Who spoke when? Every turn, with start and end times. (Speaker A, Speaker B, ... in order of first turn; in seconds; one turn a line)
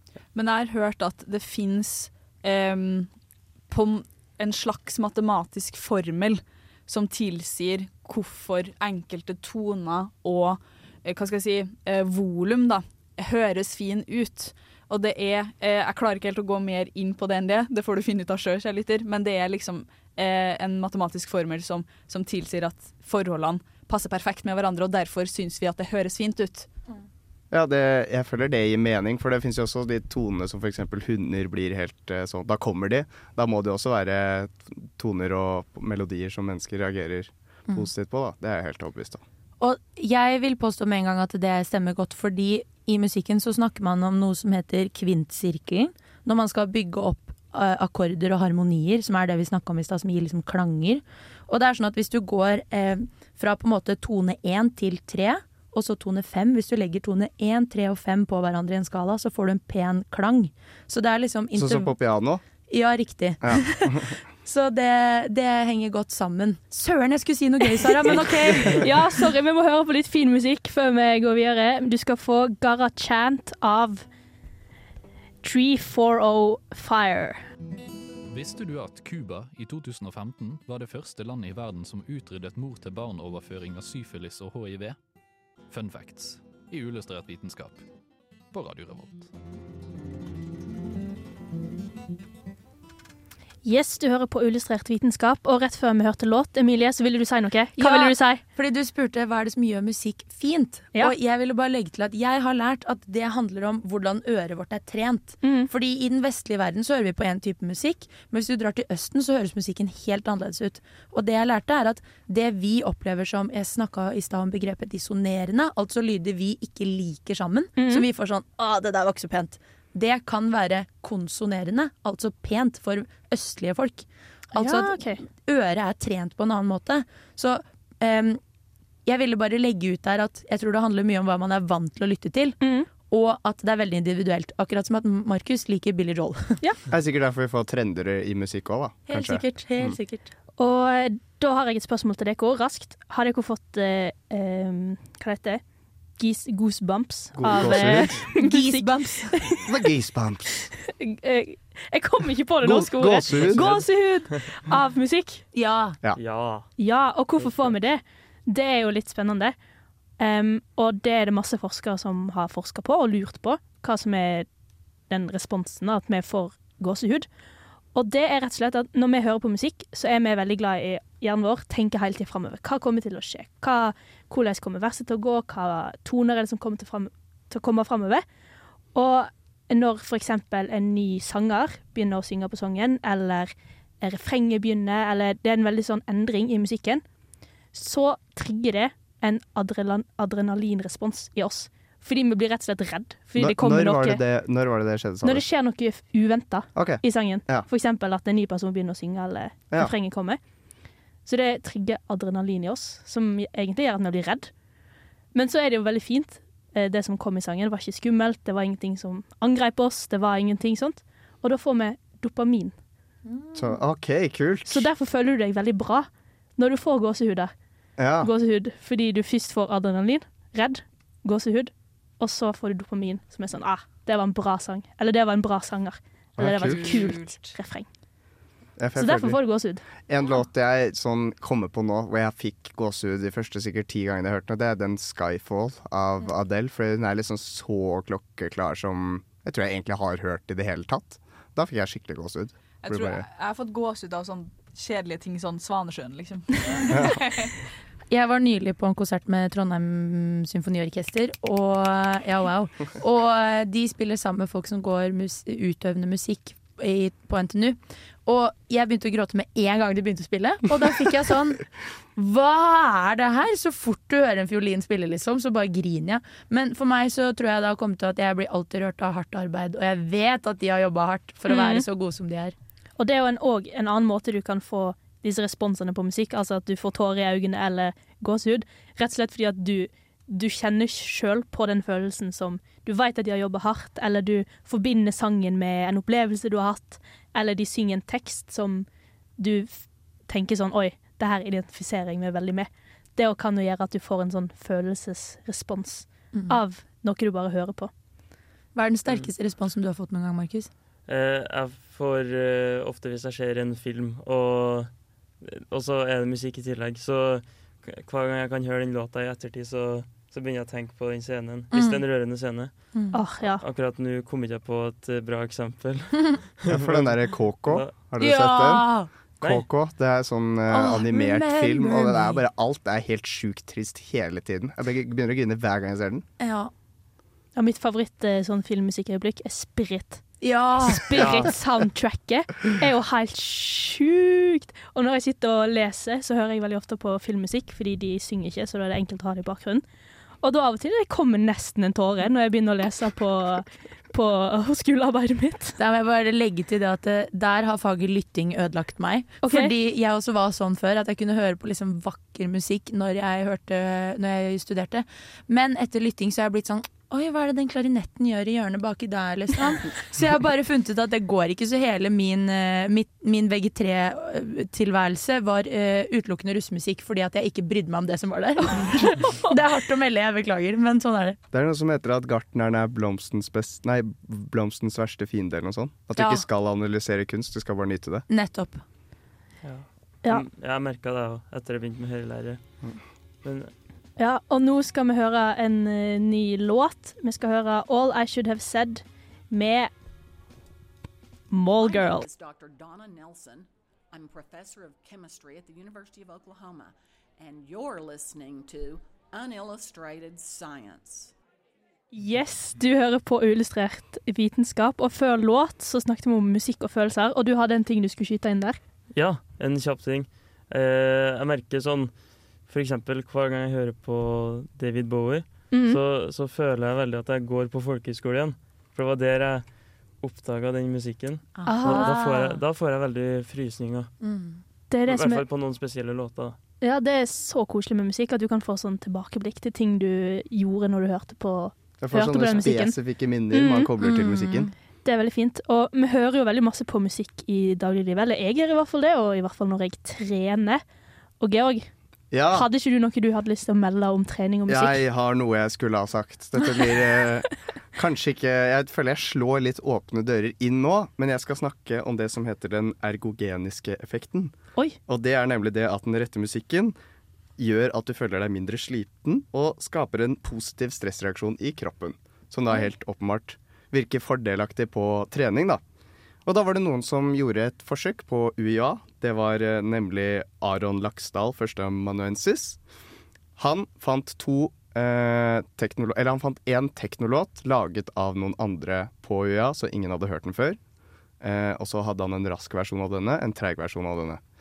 Speaker A: 0.3-3.1
Speaker A: 3.7-26.7
Speaker B: 27.5-39.2
Speaker C: 39.6-61.9
Speaker B: 61.5-62.4
Speaker C: 62.7-68.9
Speaker B: 63.4-64.1
Speaker D: 68.7-74.0
Speaker D: 75.4-77.4
Speaker E: 78.3-85.0
Speaker E: 85.7-87.8
Speaker E: 88.5-89.3
Speaker D: 93.6-98.4
Speaker C: 97.8-128.4
Speaker D: 105.4-105.7
Speaker D: 117.8-118.0
Speaker D: 124.5-125.2
Speaker C: 129.0-136.6
Speaker D: 132.6-132.9
Speaker B: 136.9-140.0
Speaker C: 139.1-140.3
Speaker D: 140.6-145.6
Speaker D: 146.2-149.6
Speaker B: 147.3-148.3
Speaker C: 147.5-149.3
Speaker B: 149.6-150.7
Speaker D: 151.0-155.4
Speaker B: 152.6-153.7
Speaker F: 153.5-154.4
Speaker C: 155.5-156.0
Speaker F: 156.2-156.7
Speaker D: 156.8-159.6
Speaker F: 157.4-157.7
Speaker D: 160.2-164.5
Speaker D: 165.1-167.3
Speaker D: 167.9-178.2
Speaker D: 178.9-187.0
Speaker D: 187.7-194.2
Speaker B: 193.3-195.4
Speaker D: 195.2-200.4
Speaker B: 196.7-197.7
Speaker D: 201.2-204.5
Speaker D: 205.3-212.8
Speaker C: 213.2-213.7
Speaker B: 213.5-214.9
Speaker D: 214.6-217.5
Speaker B: 218.0-218.3
Speaker D: 218.2-227.9
Speaker B: 226.4-227.0
Speaker B: 228.8-229.4
Speaker D: 229.0-229.8
Speaker B: 230.0-243.3
Speaker A: 242.8-247.5
Speaker B: 246.9-247.2
Speaker C: 248.1-272.5
Speaker D: 271.5-271.8
Speaker D: 273.0-288.9
Speaker D: 289.4-297.9
Speaker C: 298.7-300.7
Speaker F: 301.1-312.9
Speaker C: 311.7-312.0
Speaker D: 313.1-313.6
Speaker F: 313.6-317.9
Speaker B: 316.7-326.2
Speaker C: 318.2-319.1
Speaker C: 320.7-322.4
Speaker C: 326.4-326.7
Speaker D: 327.6-330.2
Speaker C: 330.4-331.3
Speaker D: 330.8-339.8
Speaker F: 331.1-331.5
Speaker D: 340.4-345.8
Speaker C: 345.8-371.4
Speaker D: 349.4-349.7
Speaker B: 371.5-378.3
Speaker C: 376.1-376.4
Speaker C: 378.3-378.8
Speaker F: 379.6-382.6
Speaker F: 383.4-383.7
Speaker D: 384.2-389.9
Speaker D: 391.5-392.3
Speaker G: 391.8-401.3
Speaker D: 402.1-408.8
Speaker F: 409.1-412.1
Speaker F: 412.6-424.1
Speaker D: 415.7-416.0
Speaker C: 421.6-422.6
Speaker D: 421.6-422.1
Speaker C: 424.2-424.6
Speaker D: 424.9-425.4
Speaker F: 425.1-426.6
Speaker D: 426.8-433.0
Speaker B: 432.0-434.7
Speaker D: 433.5-433.9
Speaker C: 434.0-434.7
Speaker D: 435.0-440.8
Speaker D: 441.4-441.9
Speaker B: 442.3-442.7
Speaker D: 442.5-445.0
Speaker B: 444.7-454.5
Speaker B: 455.1-456.9
Speaker B: 457.6-465.8
Speaker B: 466.4-472.8
Speaker B: 473.6-480.8
Speaker B: 481.4-484.4